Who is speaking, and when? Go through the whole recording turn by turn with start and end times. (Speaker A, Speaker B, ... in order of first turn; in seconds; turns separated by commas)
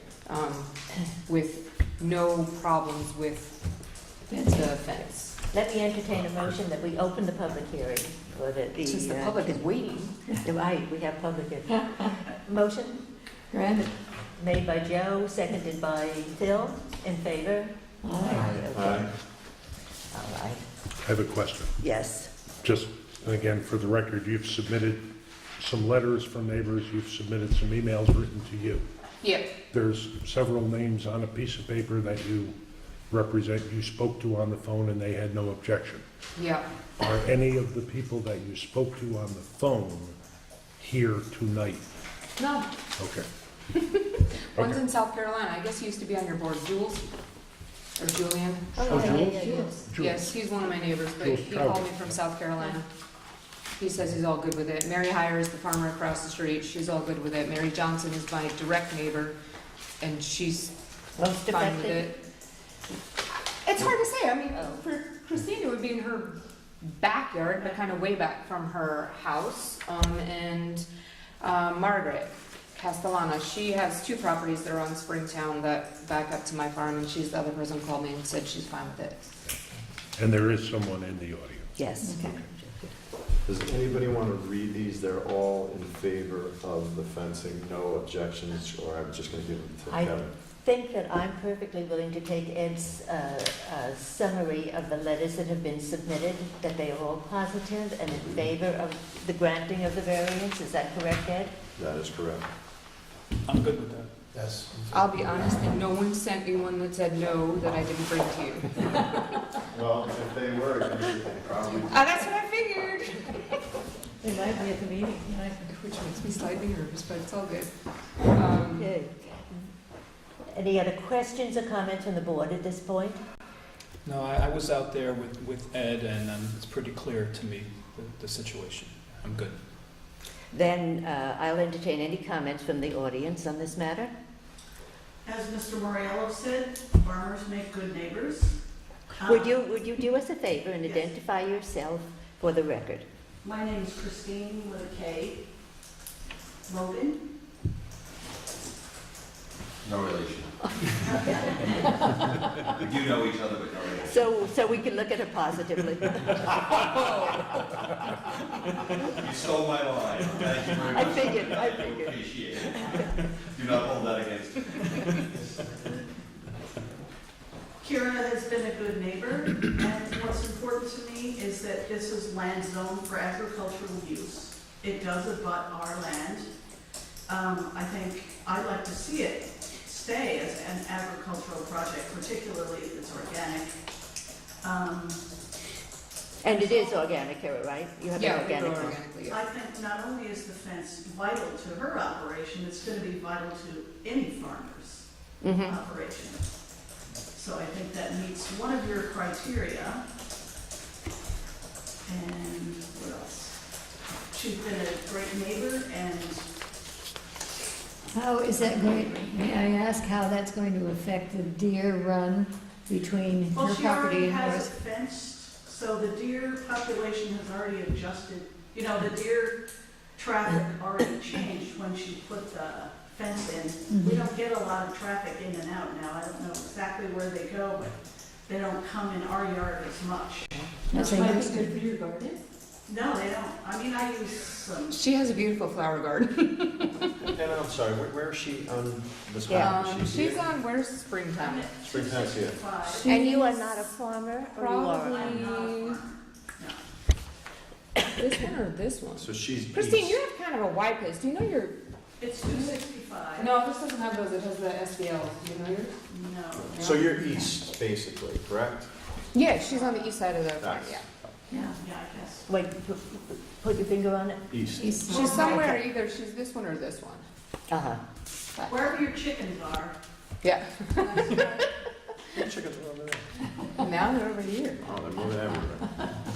Speaker A: 0.3-0.7, Speaker A: 1.2-3.6, Speaker A: 4.3-5.4, Speaker B: 4.3-4.7, Speaker C: 5.5-9.6, Speaker A: 8.8-10.2, Speaker C: 10.4-13.0, Speaker B: 11.7-12.1, Speaker B: 13.5-13.9, Speaker C: 14.4-19.1, Speaker B: 18.0-18.4, Speaker D: 18.3-19.1, Speaker C: 20.1-20.6, Speaker E: 21.0-21.7, Speaker C: 21.8-22.3, Speaker E: 22.6-25.0, Speaker E: 25.6-28.9, Speaker A: 29.2-29.5, Speaker E: 29.7-32.5, Speaker E: 33.1-36.0, Speaker A: 36.4-36.6, Speaker E: 37.0-40.1, Speaker E: 40.8-41.9, Speaker A: 42.4-42.7, Speaker E: 43.0-43.2, Speaker A: 43.8-47.1, Speaker E: 44.6-44.8, Speaker A: 48.0-52.9, Speaker C: 48.8-49.8, Speaker E: 48.8-50.3, Speaker E: 51.1-52.2, Speaker A: 53.8-59.4, Speaker A: 60.0-60.7, Speaker C: 61.2-62.1, Speaker A: 61.5-62.2, Speaker A: 63.6-70.9, Speaker A: 71.4-79.3, Speaker E: 80.2-81.7, Speaker C: 81.8-82.9, Speaker B: 82.0-82.4, Speaker D: 83.5-90.3, Speaker C: 89.9-101.5, Speaker D: 101.8-102.4, Speaker F: 103.5-105.3, Speaker A: 104.9-109.1, Speaker D: 109.7-112.1, Speaker A: 111.9-113.5, Speaker B: 114.2-115.7, Speaker C: 114.2-115.2, Speaker A: 115.7-117.7, Speaker A: 118.3-118.9, Speaker C: 118.5-119.5, Speaker C: 120.5-123.2, Speaker F: 124.0-129.6, Speaker C: 130.5-134.1, Speaker G: 135.2-138.6, Speaker G: 139.2-139.7, Speaker C: 139.2-143.1, Speaker G: 140.8-141.1, Speaker G: 143.4-145.5, Speaker G: 146.7-147.2, Speaker H: 149.8-150.5, Speaker C: 150.7-152.7, Speaker H: 152.8-154.2, Speaker C: 154.0-157.3, Speaker A: 157.0-157.3, Speaker H: 159.2-162.7, Speaker C: 160.7-163.2, Speaker F: 161.6-162.0, Speaker H: 163.5-164.7, Speaker G: 167.8-176.5, Speaker G: 177.3-183.8, Speaker G: 184.6-185.2, Speaker C: 186.4-189.0, Speaker G: 186.4-187.1, Speaker A: 188.2-189.4, Speaker G: 189.3-195.1, Speaker C: 195.4-195.8, Speaker G: 195.6-196.4, Speaker G: 197.3-200.0, Speaker G: 202.1-203.6, Speaker G: 204.3-206.4, Speaker B: 208.1-214.7, Speaker G: 208.4-209.8, Speaker G: 213.5-219.6, Speaker G: 220.2-230.7, Speaker B: 223.9-224.3, Speaker B: 230.9-231.8, Speaker A: 230.9-232.4, Speaker G: 232.9-235.0, Speaker A: 234.9-237.2, Speaker D: 237.3-240.5, Speaker C: 239.5-239.8, Speaker A: 239.5-241.7, Speaker G: 241.3-243.2, Speaker D: 241.8-242.6, Speaker C: 242.9-245.6, Speaker A: 243.0-243.8, Speaker A: 244.6-246.0, Speaker G: 245.0-246.8, Speaker A: 248.1-251.8, Speaker D: 249.2-250.2, Speaker G: 252.2-253.5, Speaker A: 252.4-252.8, Speaker A: 253.4-255.9, Speaker G: 256.1-256.8, Speaker D: 256.6-258.9, Speaker A: 256.7-257.0, Speaker A: 259.3-261.0, Speaker G: 259.7-260.1, Speaker D: 260.6-261.0, Speaker B: 261.5-261.8, Speaker G: 261.8-262.5, Speaker C: 262.5-265.8, Speaker D: 264.5-264.9, Speaker B: 264.8-265.6, Speaker A: 265.1-267.3, Speaker C: 267.7-268.0, Speaker G: 268.7-270.0, Speaker A: 270.4-271.6, Speaker G: 271.1-271.7, Speaker D: 272.3-273.2, Speaker A: 273.8-274.9, Speaker D: 274.9-275.9